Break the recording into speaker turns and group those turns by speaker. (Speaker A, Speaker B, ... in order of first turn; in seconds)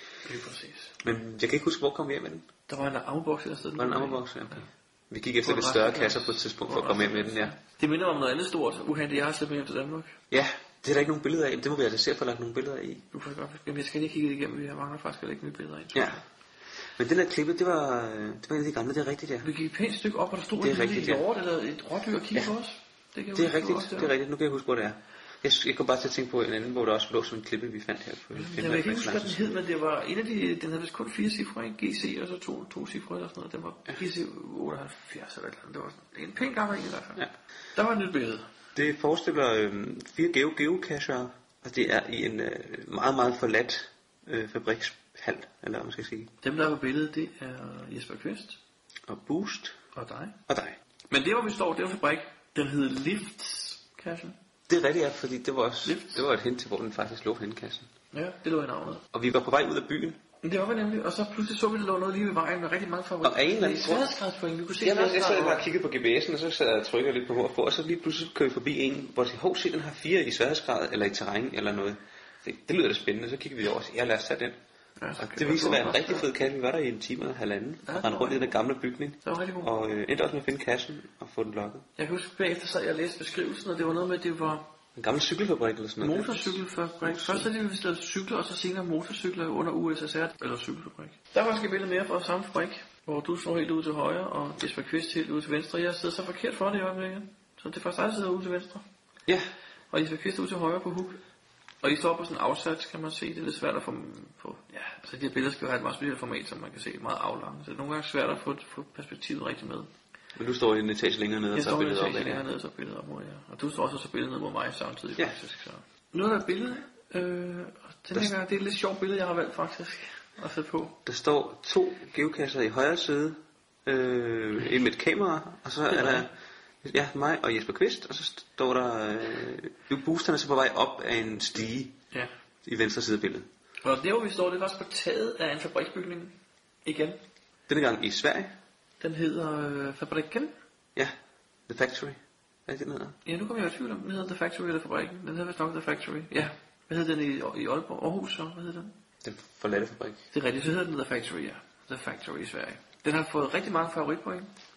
Speaker A: 0.2-0.9, 2.7-4.7, 5.4-10.1, 13.1-16.2, 19.4-24.1, 28.3-38.5, 46.4-48.6, 49.9-50.4, 51.1-54.4, 55.8-56.2, 58.1-59.0, 60.4-65.6, 75.0-76.3, 77.8-78.6, 79.2-79.7, 82.0-84.7, 86.0-98.8, 99.9-101.2, 101.8-109.9, 111.5-121.0, 125.9-126.3, 133.8-136.3, 136.8-137.2, 139.0-140.5, 143.2-148.9, 150.3-154.5
Speaker B: 1.0-2.5, 3.8-7.5, 10.3-13.0, 15.9-16.2, 16.9-19.5, 20.6-21.2, 23.3-29.5, 38.7-46.3, 49.1-49.8, 50.5-50.8, 54.7-57.9, 59.1-60.2, 63.2-64.1, 64.8-74.6, 75.2-81.8, 85.0-87.5, 110.3-112.4, 121.0-132.0, 132.6-133.5, 137.7-138.5, 141.7-143.2, 149.2-150.2